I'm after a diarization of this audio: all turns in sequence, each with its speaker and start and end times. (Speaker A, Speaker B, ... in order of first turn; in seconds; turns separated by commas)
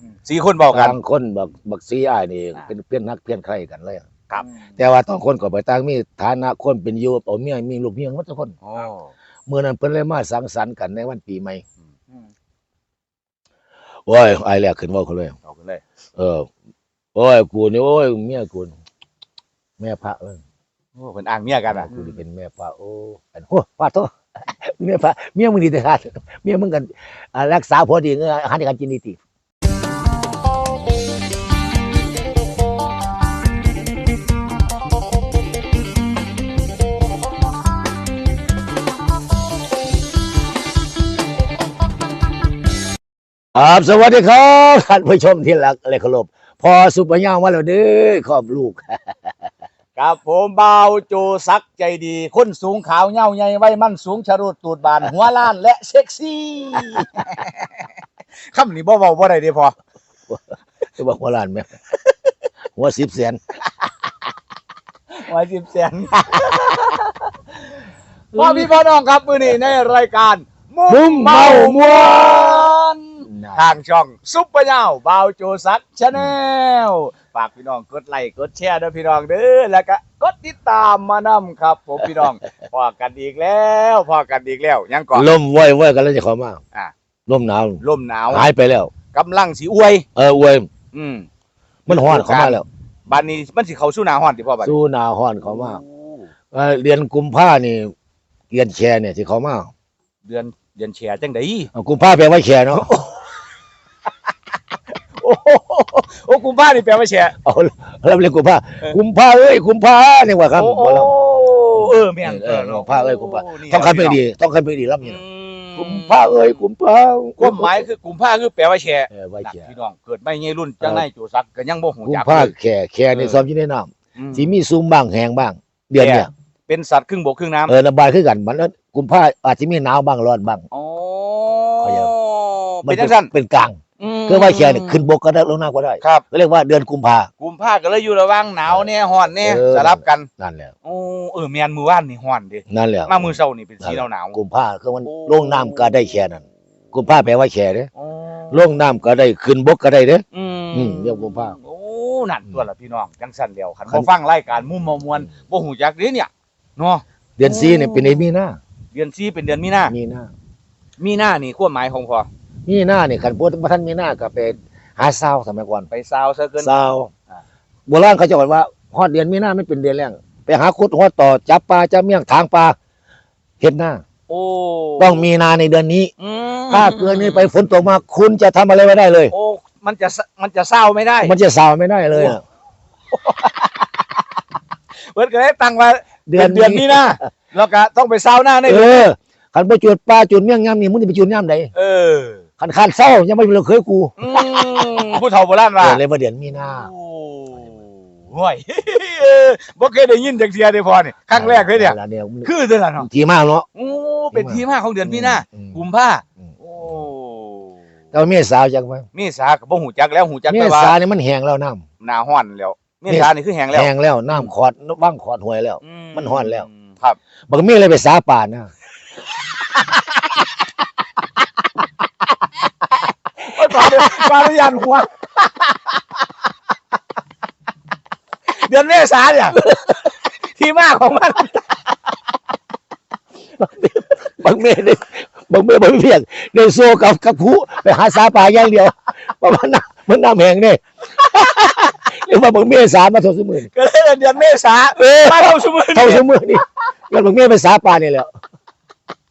Speaker A: 0.2-1.0, Speaker B: 0.7-4.1, Speaker B: 4.8-8.6, Speaker A: 8.6-9.1, Speaker B: 9.5-11.6, Speaker B: 14.1-15.3, Speaker A: 15.4-15.8, Speaker B: 16.2-16.5, Speaker B: 17.1-18.8, Speaker B: 19.8-20.4, Speaker A: 21.0-22.2, Speaker B: 21.7-29.2, Speaker B: 43.5-49.0, Speaker A: 50.0-57.9, Speaker A: 58.5-59.8, Speaker B: 60.3-61.8, Speaker B: 62.8-63.4, Speaker A: 65.1-67.1, Speaker A: 68.3-85.3, Speaker B: 68.3-68.7, Speaker B: 70.9-72.7, Speaker B: 73.2-73.7, Speaker B: 85.1-86.6, Speaker B: 87.3-88.9, Speaker A: 87.8-88.5, Speaker A: 89.1-90.1, Speaker B: 90.2-90.7, Speaker A: 90.9-91.3, Speaker B: 91.9-92.7, Speaker A: 91.9-94.7, Speaker B: 94.6-95.8, Speaker A: 95.5-96.3, Speaker B: 96.5-97.9, Speaker B: 98.5-99.7, Speaker A: 100.2-101.7, Speaker B: 101.7-103.1, Speaker A: 105.2-107.3, Speaker B: 107.4-111.2, Speaker A: 110.6-114.2, Speaker B: 112.2-115.2, Speaker A: 115.0-116.6, Speaker B: 115.8-117.8, Speaker A: 117.4-122.5, Speaker B: 119.1-119.7, Speaker B: 122.1-126.3, Speaker A: 123.1-123.4, Speaker A: 124.2-124.6, Speaker A: 126.0-127.7, Speaker B: 127.7-130.7, Speaker A: 130.7-133.3, Speaker B: 131.8-132.1, Speaker B: 132.8-137.3, Speaker A: 134.0-135.1, Speaker A: 137.4-140.3, Speaker B: 139.4-140.7, Speaker A: 140.8-144.4, Speaker B: 142.7-147.9, Speaker A: 145.1-146.0, Speaker A: 148.0-148.6, Speaker B: 148.5-151.6, Speaker A: 150.3-157.0, Speaker B: 157.4-158.6, Speaker A: 158.9-159.9, Speaker B: 159.9-160.3, Speaker A: 161.0-162.3, Speaker B: 162.7-165.9, Speaker A: 165.9-166.7, Speaker B: 166.6-167.1, Speaker B: 167.9-172.8, Speaker B: 173.6-174.0, Speaker A: 174.3-175.3, Speaker B: 175.0-176.1, Speaker A: 176.2-177.5, Speaker B: 176.7-179.3, Speaker A: 179.3-181.3, Speaker B: 181.2-182.4, Speaker A: 183.1-184.2, Speaker A: 185.1-189.1, Speaker B: 186.3-187.2, Speaker B: 188.7-191.7, Speaker A: 191.8-192.4, Speaker B: 192.6-194.2, Speaker A: 194.2-196.0, Speaker B: 195.8-196.9, Speaker A: 196.6-203.1, Speaker B: 201.3-203.7, Speaker A: 203.8-207.8, Speaker B: 204.3-205.8, Speaker B: 208.1-209.1, Speaker A: 209.1-211.0, Speaker B: 210.5-211.8, Speaker A: 212.0-214.5, Speaker B: 213.1-216.7, Speaker A: 215.8-217.2, Speaker B: 217.5-218.7, Speaker A: 219.6-220.3, Speaker A: 223.5-225.9, Speaker A: 228.6-231.8, Speaker B: 233.6-243.7, Speaker A: 243.7-246.3, Speaker B: 245.0-248.3